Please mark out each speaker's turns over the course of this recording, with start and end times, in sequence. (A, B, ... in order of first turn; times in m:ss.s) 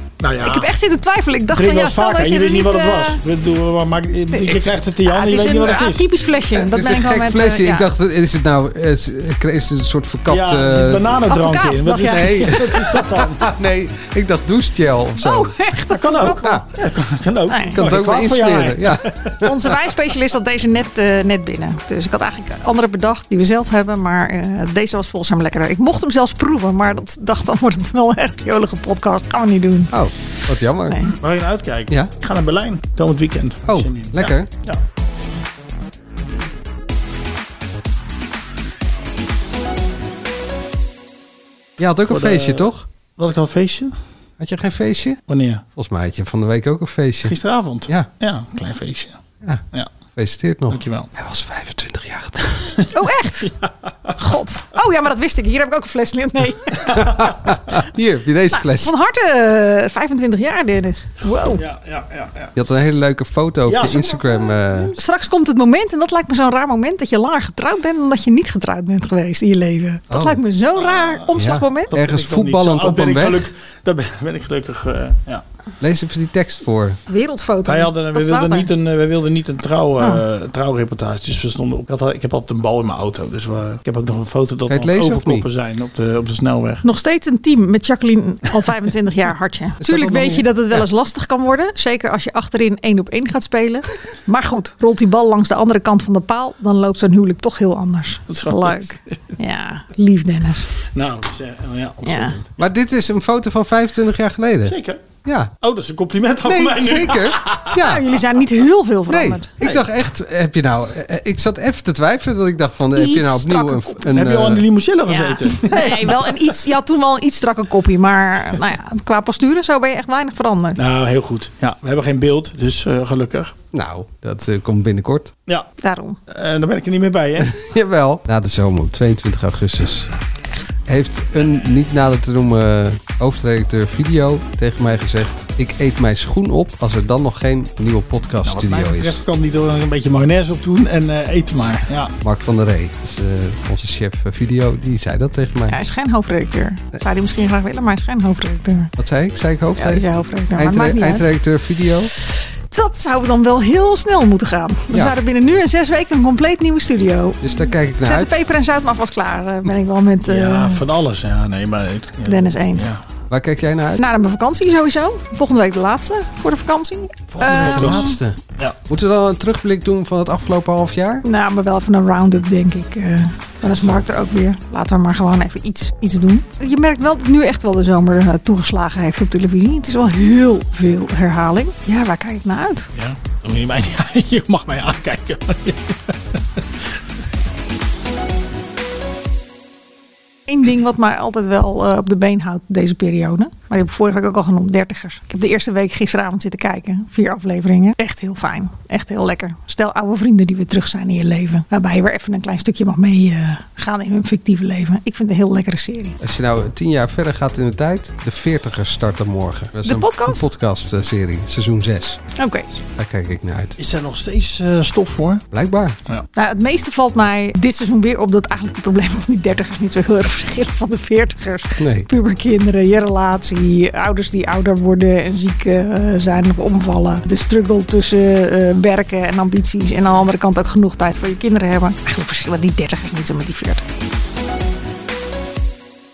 0:00.2-0:00.7 A
0:00.4-0:03.2 B
0:01.5-0:06.1 A
0:04.3-0:04.7 C
0:05.1-0:07.9 B
0:06.7-0:11.2 C
0:10.3-0:13.5 A
0:11.3-0:12.6 B
0:12.1-0:15.5 C
0:15.2-0:16.5 B
0:15.9-0:19.3 A
0:17.5-0:17.9 B
0:17.8-0:19.5 C
0:19.4-0:29.9 B
0:29.9-0:31.0 C
0:30.9-0:31.1 B
0:31.1-0:34.8 A
0:33.7-0:34.5 C
0:41.8-0:42.8 C
0:42.1-0:44.0 A
0:44.4-0:45.2 C
0:45.3-0:45.6 A
0:45.7-0:47.4 C
0:47.2-0:49.2 A
0:50.1-0:52.8 C
0:50.7-0:51.1 A
0:52.8-0:54.1 A
0:52.9-0:53.5 B
0:54.2-0:57.0 B
0:56.9-0:58.9 C
0:58.5-1:01.6 B
1:01.4-1:02.5 A
1:02.6-1:04.9 C
1:03.7-1:05.0 A
1:05.0-1:11.9 B
1:10.1-1:10.4 C
1:10.7-1:15.4 A
1:11.4-1:13.5 C
1:15.8-1:17.0 C
1:17.1-1:18.7 B
1:17.6-1:26.8 A
1:24.7-1:25.5 C
1:26.8-1:40.7 B
1:29.8-1:30.5 C
1:38.3-1:39.2 A
1:40.9-1:42.5 A
1:42.1-1:42.4 B
1:42.6-1:45.5 C
1:44.6-1:45.0 A
1:45.6-1:47.8 A
1:46.4-1:48.0 C
1:47.7-1:49.5 B
1:49.1-1:54.6 C
1:52.9-1:54.0 B
1:54.1-1:56.6 A
1:55.1-2:00.8 B
2:00.8-2:03.6 A
2:03.7-2:05.3 C
2:05.8-2:06.2 B
2:06.3-2:07.5 A
2:07.4-2:10.1 C
2:10.9-2:19.2 C
2:18.4-2:22.1 A
2:22.2-2:25.8 C
2:25.7-2:28.9 B
2:29.0-2:30.0 C
2:29.8-2:31.2 B
2:30.6-2:32.1 C
2:32.1-2:40.8 B
2:37.4-2:38.3 C
2:40.3-2:43.0 A
2:42.3-2:42.9 B
2:43.3-2:44.0 C
2:44.0-2:48.2 B
2:47.3-2:51.2 C
2:47.4-2:48.8 A
2:51.2-3:02.9 B
3:02.9-3:06.9 A
3:10.5-3:26.2 B
3:26.2-3:32.2 C
3:29.8-3:30.4 B
3:32.4-3:32.7 B
3:32.8-3:33.8 C
3:33.8-3:35.4 A
3:35.5-3:36.0 C
3:36.4-3:53.8 B
3:41.8-3:42.1 C